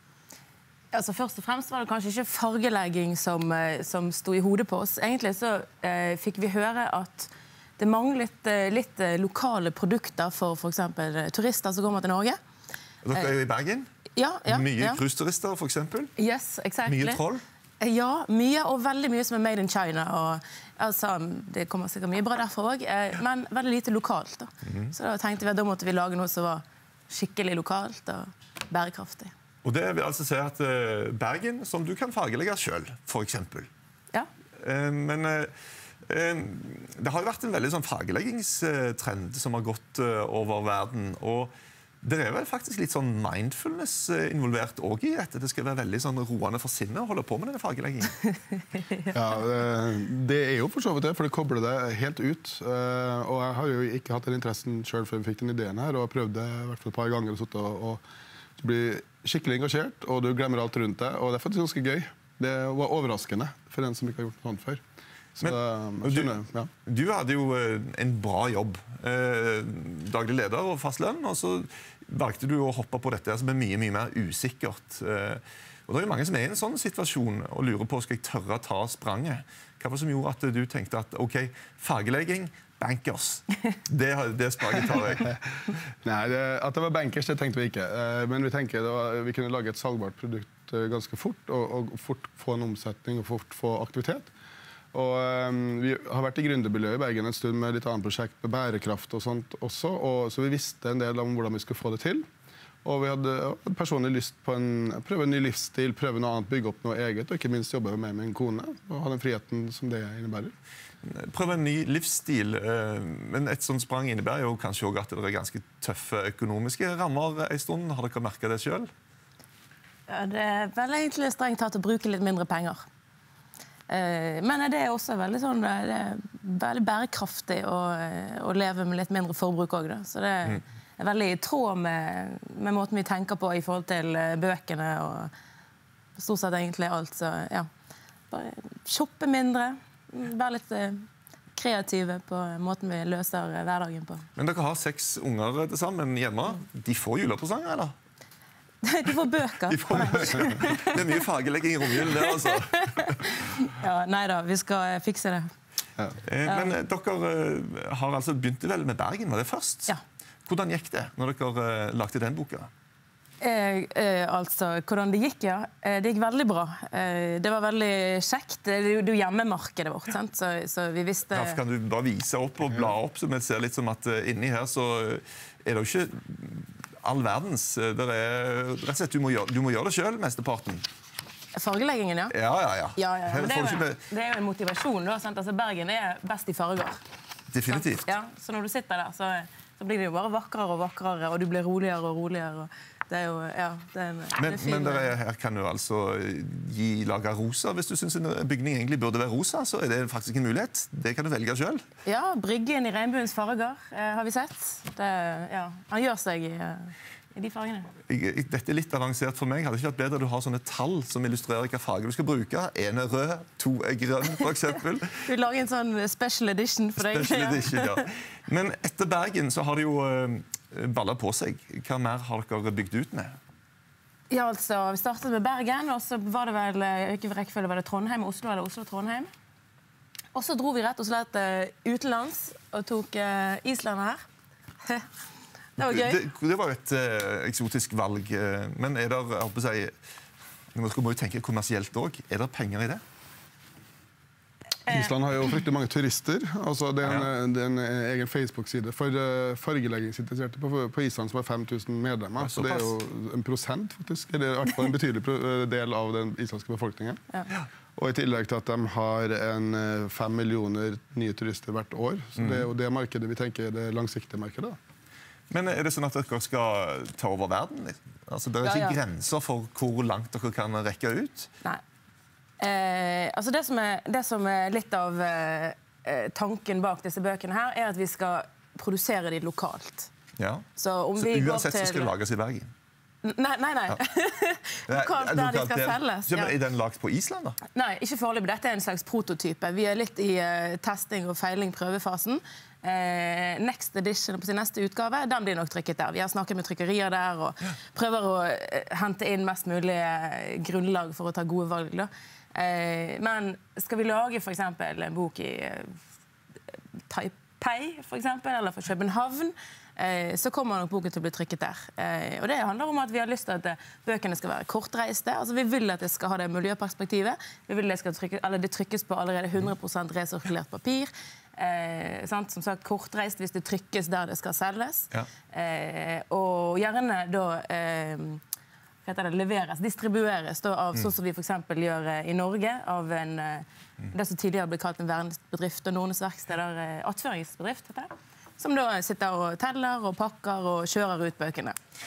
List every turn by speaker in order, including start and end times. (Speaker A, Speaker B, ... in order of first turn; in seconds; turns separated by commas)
Speaker A: 0.9-12.4, Speaker B: 13.0-13.9, Speaker A: 14.2-15.0, Speaker B: 14.4-16.1, Speaker A: 16.2-17.2, Speaker B: 16.9-17.4, Speaker A: 17.8-29.3, Speaker B: 24.6-24.9, Speaker B: 29.6-33.7, Speaker B: 34.6-35.5, Speaker B: 36.0-48.2, Speaker C: 49.1-58.0, Speaker C: 58.6-64.8, Speaker C: 65.3-66.7, Speaker B: 65.4-66.3, Speaker B: 66.8-85.3, Speaker C: 86.0-94.3, Speaker C: 94.9-102.2, Speaker C: 102.8-110.5, Speaker B: 111.0-118.9, Speaker A: 120.1-122.8, Speaker A: 123.9-135.3, Speaker A: 136.2-137.7, Speaker A: 138.3-144.2, Speaker B: 144.3-147.9, Speaker A: 148.8-151.2, Speaker B: 149.7-153.3, Speaker A: 151.9-155.5, Speaker B: 156.2-159.9, Speaker A: 156.4-156.7, Speaker B: 160.4-162.7, Speaker A: 163.4-171.6, Speaker B: 171.3-180.8, Speaker A: 181.5-182.3, Speaker B: 182.3-184.0, Speaker A: 182.9-187.0, Speaker B: 187.5-188.0, Speaker A: 187.7-195.1, Speaker B: 194.4-201.8, Speaker A: 202.1-207.9, Speaker B: 208.1-215.3, Speaker A: 215.2-218.0, Speaker B: 217.0-223.3, Speaker A: 224.3-229.3, Speaker A: 230.3-234.2, Speaker A: 235.8-236.2, Speaker B: 235.8-239.9, Speaker B: 240.7-243.0, Speaker A: 244.8-245.1, Speaker C: 244.9-257.2, Speaker B: 247.0-247.3, Speaker B: 252.4-252.9, Speaker C: 257.9-264.8, Speaker B: 262.4-262.7, Speaker B: 265.5-271.5, Speaker A: 268.6-269.0, Speaker A: 272.6-280.1, Speaker B: 280.4-282.7, Speaker A: 280.8-282.1, Speaker A: 283.2-286.5, Speaker B: 284.9-287.6, Speaker A: 287.7-306.0, Speaker A: 307.1-328.4, Speaker A: 329.0-341.8